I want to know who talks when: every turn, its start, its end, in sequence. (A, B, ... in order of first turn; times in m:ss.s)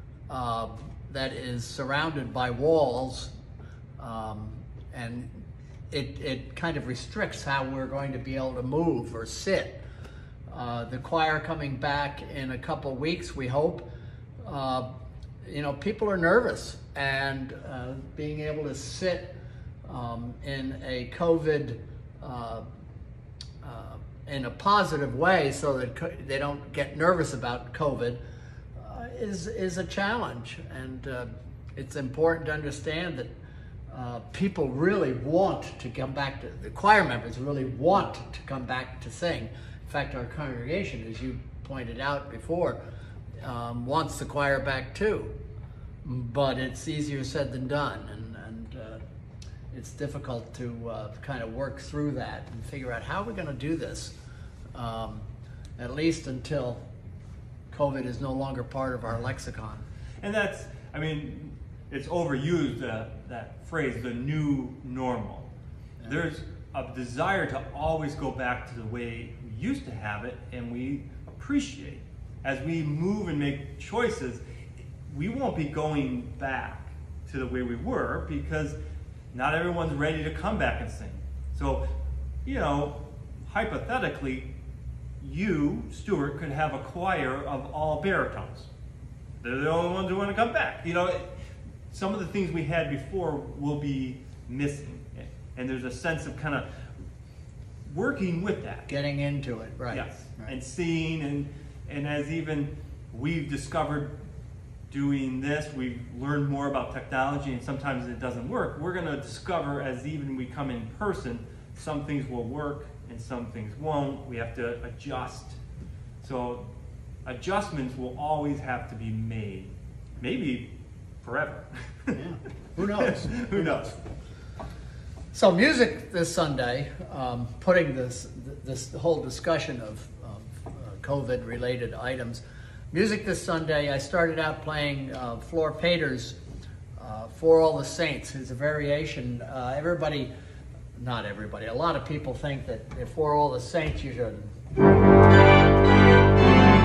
0:00.3-0:03.3 A
0:04.0-0:09.8 A
0:10.5-0:13.9 A
0:14.4-0:14.9 A
0:15.4-0:22.6 A
0:23.6-0:28.2 A
0:28.8-0:33.3 A
0:33.9-0:42.8 A
0:43.4-0:45.3 A
0:46.0-0:49.0 A
0:49.7-0:54.1 A
0:54.7-0:55.2 A
0:55.8-0:56.8 A
0:57.7-0:59.8 A
1:00.2-1:05.5 B
1:06.0-1:14.4 B
1:15.1-1:18.8 B
1:19.3-1:21.8 B
1:22.4-1:24.5 B
1:25.2-1:28.7 B
1:29.4-1:31.3 B
1:31.9-1:36.6 B
1:37.8-1:38.9 B
1:38.9-1:40.5 A
1:39.9-1:44.1 B
1:44.9-1:55.6 B
1:56.2-1:56.7 B
1:57.2-2:02.2 B
2:02.1-2:04.0 A
2:03.0-2:03.9 B
2:05.3-2:16.4 A
2:17.0-2:20.3 A
2:21.0-2:24.5 A